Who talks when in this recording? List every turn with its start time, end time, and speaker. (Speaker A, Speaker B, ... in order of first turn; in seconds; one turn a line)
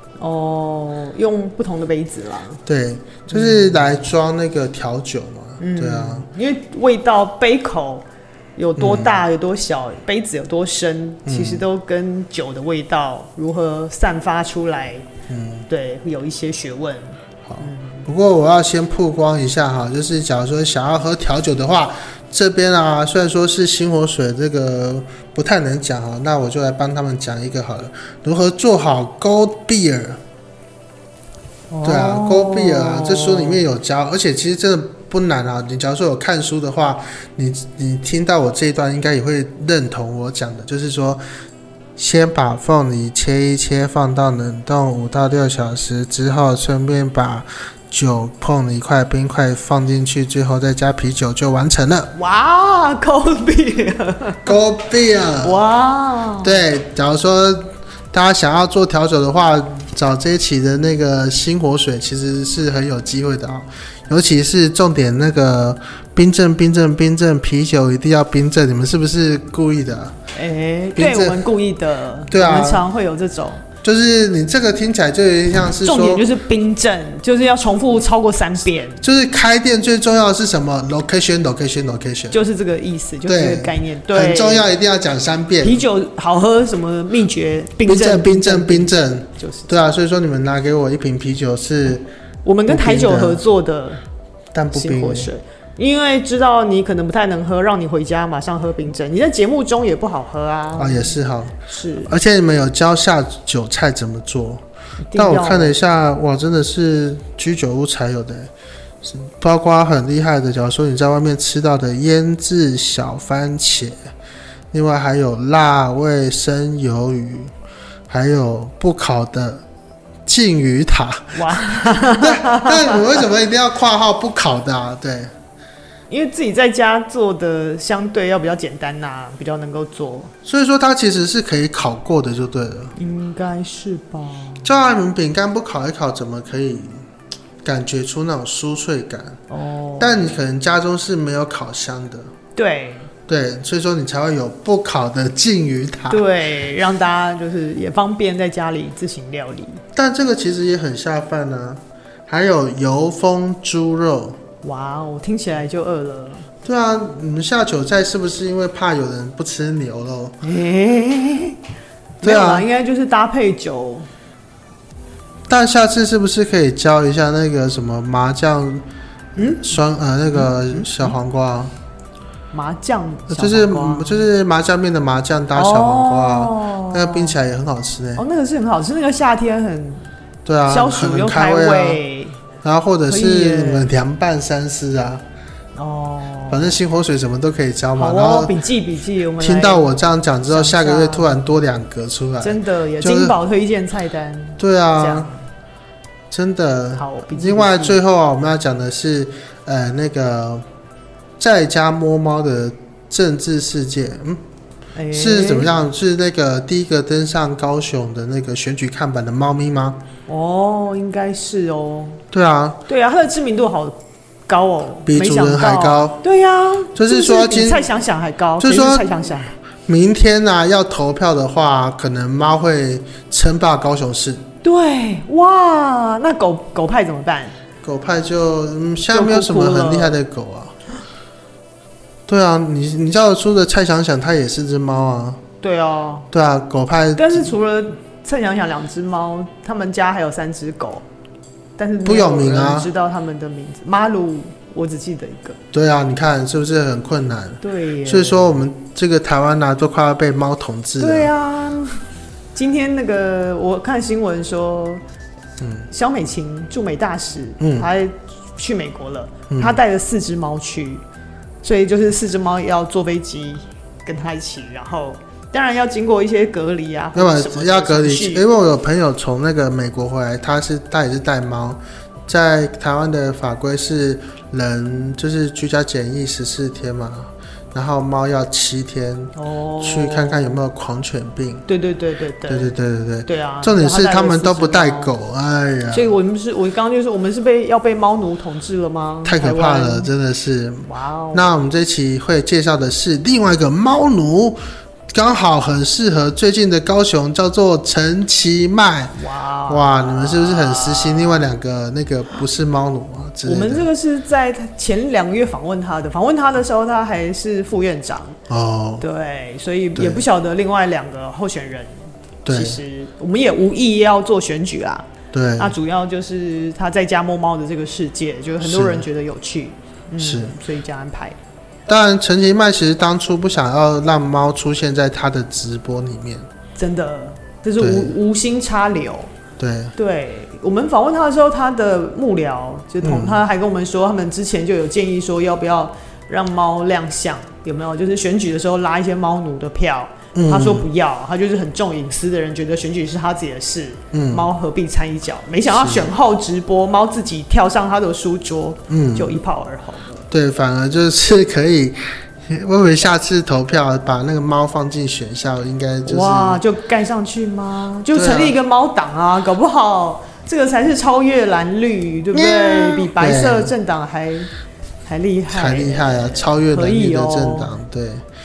Speaker A: 0.2-2.6
Speaker B: 2.7-6.3
Speaker A: 3.3-3.8
Speaker A: 5.6-15.1
Speaker B: 8.8-9.2
Speaker B: 11.3-11.7
Speaker B: 15.3-15.7
Speaker A: 15.7-18.1
Speaker B: 17.5-30.2
Speaker A: 31.7-33.6
Speaker B: 31.8-41.2
Speaker B: 42.0-52.1
Speaker A: 52.1-54.6
Speaker B: 54.5-55.6
Speaker A: 55.4-56.6
Speaker B: 56.4-70.2
Speaker A: 70.3-73.7
Speaker B: 71.0-71.4
Speaker B: 72.3-72.8
Speaker B: 73.8-76.3
Speaker A: 75.8-79.0
Speaker B: 79.0-82.4
Speaker A: 82.3-84.7
Speaker B: 83.3-85.8
Speaker A: 85.6-89.8
Speaker B: 87.9-92.0
Speaker A: 92.4-94.0
Speaker B: 92.7-93.4
Speaker B: 94.5-95.3
Speaker A: 94.7-102.1
Speaker B: 100.8-104.6
Speaker A: 105.1-105.8
Speaker B: 105.1-108.5
Speaker B: 109.0-114.0
Speaker B: 114.7-117.5
Speaker B: 118.1-119.6
Speaker B: 120.3-125.3
Speaker A: 121.3-123.3
Speaker A: 126.1-130.3
Speaker B: 130.4-132.9
Speaker A: 133.0-134.7
Speaker B: 134.6-137.0
Speaker B: 137.6-139.4
Speaker A: 139.5-140.3
Speaker B: 140.0-142.3
Speaker A: 142.6-143.1
Speaker B: 143.3-146.2
Speaker A: 146.1-149.8
Speaker B: 149.9-154.4
Speaker A: 154.6-156.5
Speaker B: 156.7-160.4
Speaker A: 160.4-161.6
Speaker A: 162.2-164.1
Speaker B: 162.2-162.7
Speaker B: 165.5-168.8
Speaker A: 169.4-169.8
Speaker B: 169.4-171.7
Speaker A: 170.3-171.2
Speaker A: 172.5-174.3
Speaker B: 173.3-178.2
Speaker A: 175.6-177.4
Speaker A: 178.2-180.1
Speaker B: 180.4-182.0
Speaker A: 180.7-182.4
Speaker B: 182.6-185.2
Speaker A: 183.1-183.9
Speaker A: 185.8-186.8
Speaker B: 186.5-188.5
Speaker A: 188.0-189.9
Speaker B: 189.4-193.4
Speaker A: 190.5-191.4
Speaker A: 192.4-195.4
Speaker B: 194.6-195.3
Speaker B: 196.3-200.7
Speaker A: 197.0-198.0
Speaker B: 201.4-204.4
Speaker A: 204.9-205.7
Speaker B: 205.1-210.0
Speaker A: 210.3-212.2
Speaker B: 212.3-212.8
Speaker A: 212.9-219.6
Speaker B: 215.1-216.2
Speaker B: 216.9-217.9
Speaker B: 218.6-219.1
Speaker B: 219.9-224.4
Speaker A: 224.6-227.6
Speaker B: 227.8-230.8
Speaker A: 229.1-230.2
Speaker B: 232.3-235.4
Speaker A: 235.6-236.3
Speaker B: 236.3-237.5
Speaker A: 237.2-241.1
Speaker A: 241.8-245.6
Speaker B: 242.0-242.9
Speaker B: 245.7-251.3
Speaker A: 247.6-248.6
Speaker A: 251.0-252.0
Speaker A: 252.5-255.0
Speaker B: 255.6-255.9
Speaker A: 255.9-261.0
Speaker B: 257.6-257.9
Speaker B: 259.5-259.8
Speaker A: 261.6-268.5
Speaker B: 267.1-281.6
Speaker A: 279.4-280.6
Speaker A: 281.7-282.7
Speaker B: 282.5-286.1
Speaker A: 283.3-285.1
Speaker A: 285.9-290.1
Speaker B: 289.2-294.6
Speaker A: 290.9-291.5
Speaker B: 295.1-299.2
Speaker A: 299.1-301.5
Speaker B: 299.7-303.9
Speaker A: 303.4-308.4
Speaker B: 308.5-309.1
Speaker A: 309.0-311.9
Speaker B: 309.9-310.2
Speaker B: 312.4-312.8
Speaker A: 312.5-315.1
Speaker B: 315.3-315.8
Speaker A: 315.6-321.4
Speaker B: 318.6-319.0
Speaker B: 320.2-320.6
Speaker B: 321.9-326.5
Speaker A: 326.8-329.3
Speaker B: 327.8-328.1
Speaker B: 329.6-329.9
Speaker A: 329.9-350.3
Speaker B: 333.0-333.4
Speaker B: 340.3-340.9
Speaker B: 344.1-344.5
Speaker B: 345.7-346.1
Speaker B: 348.9-349.3
Speaker B: 350.3-356.6
Speaker A: 356.1-364.5
Speaker B: 358.1-358.6
Speaker B: 362.3-363.7
Speaker A: 365.1-367.7
Speaker B: 365.5-368.2